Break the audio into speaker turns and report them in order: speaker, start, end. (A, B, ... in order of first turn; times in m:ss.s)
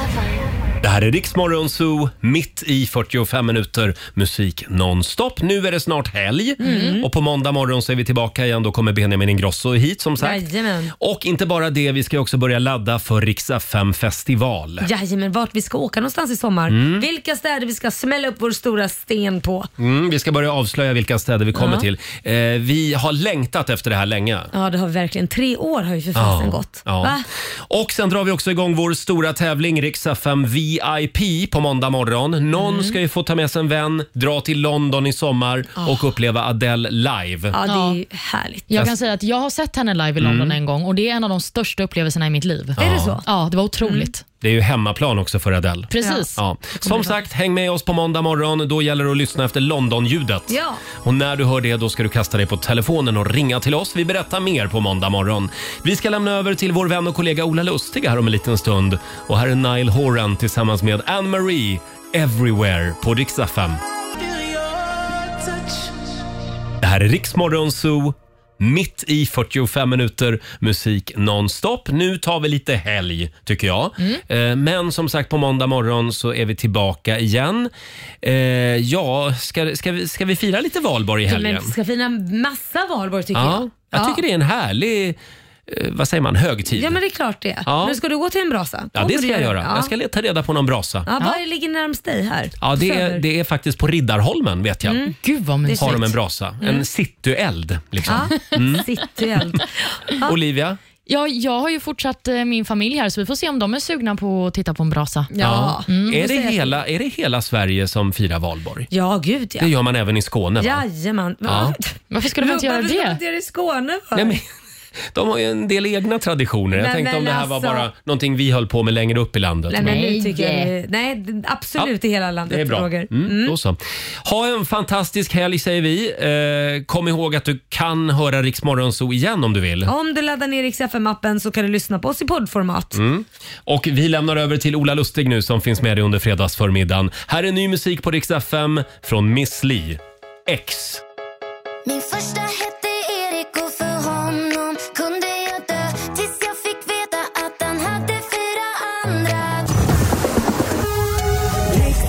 0:00.8-0:10.4 A
0:06.6-0:07.0 B
0:06.6-0:07.0 C
0:10.2-0:10.9 B
0:11.0-0:14.9 A
0:14.8-0:19.7 B
0:16.7-0:17.0 A
0:19.8-0:24.5 A
0:21.5-0:21.9 B
0:24.5-0:27.2 B
0:26.1-0:37.6 A
0:32.6-0:32.9 B
0:37.5-0:38.7 B
0:37.6-0:38.0 C
0:38.7-0:44.2 C
0:40.2-0:40.6 A
0:42.8-0:43.2 A
0:42.8-0:43.2 B
0:43.8-0:44.1 B
0:44.4-1:03.8 A
0:45.9-0:46.4 C
0:46.0-0:46.3 B
0:46.8-0:47.1 B
0:50.5-0:50.8 B
1:06.8-1:17.7 A
1:18.2-1:21.7 A
1:21.2-1:24.2 B
1:23.3-1:27.0 A
1:26.7-1:29.9 B
1:27.6-1:28.0 A
1:28.9-1:31.1 A
1:31.0-1:33.2 B
1:32.6-1:35.0 A
1:34.8-1:36.0 B
1:35.2-1:36.1 C
1:35.8-1:38.9 A
1:38.0-1:40.3 B
1:40.2-1:40.8 A
1:41.0-1:45.3 C
1:45.3-1:46.8 B
1:45.4-1:48.9 A
1:45.8-1:46.2 C
1:48.9-1:49.7 B
1:49.6-1:50.8 A
1:50.6-1:54.4 B
1:51.4-1:51.8 A
1:52.1-1:53.2 C
1:54.1-1:54.4 A
1:55.1-2:00.1 A
1:56.7-1:57.9 B
1:59.7-2:03.6 B
1:59.8-2:00.7 C
2:02.5-2:09.9 A
2:09.8-2:13.0 B
2:12.9-2:21.0 A
2:21.8-2:29.7 D